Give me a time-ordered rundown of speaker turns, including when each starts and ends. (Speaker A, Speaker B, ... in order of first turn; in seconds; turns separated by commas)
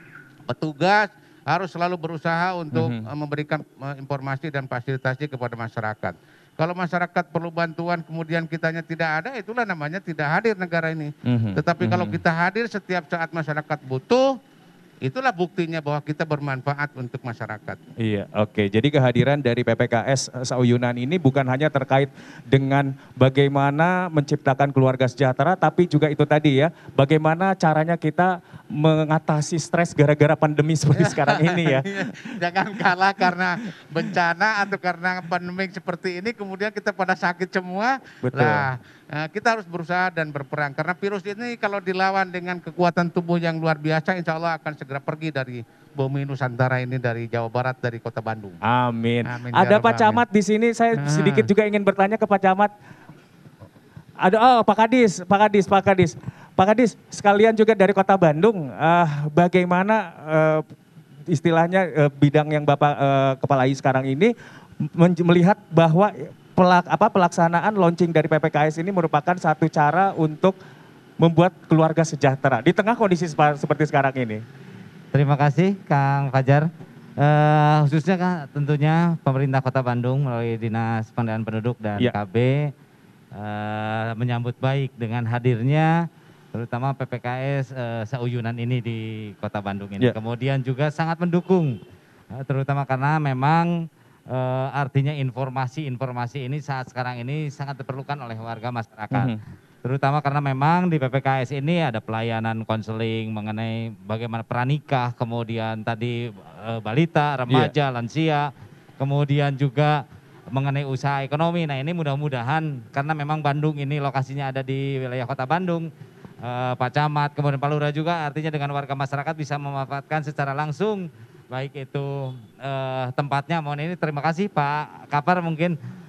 Speaker A: 0.5-14.3, Speaker B: 2.7-3.1, Speaker B: 11.3-12.2, Speaker A: 15.0-17.8, Speaker B: 18.0-32.4, Speaker A: 30.9-48.6, Speaker B: 38.2-38.7, Speaker B: 48.6-52.7, Speaker A: 49.2-50.2, Speaker A: 51.0-51.5, Speaker B: 54.2-60.6, Speaker B: 61.3-64.3, Speaker B: 64.8-70.6, Speaker B: 71.2-74.4, Speaker C: 75.1-82.7, Speaker C: 83.3-91.8, Speaker C: 92.3-115.9, Speaker B: 99.1-99.4, Speaker C: 116.4-125.8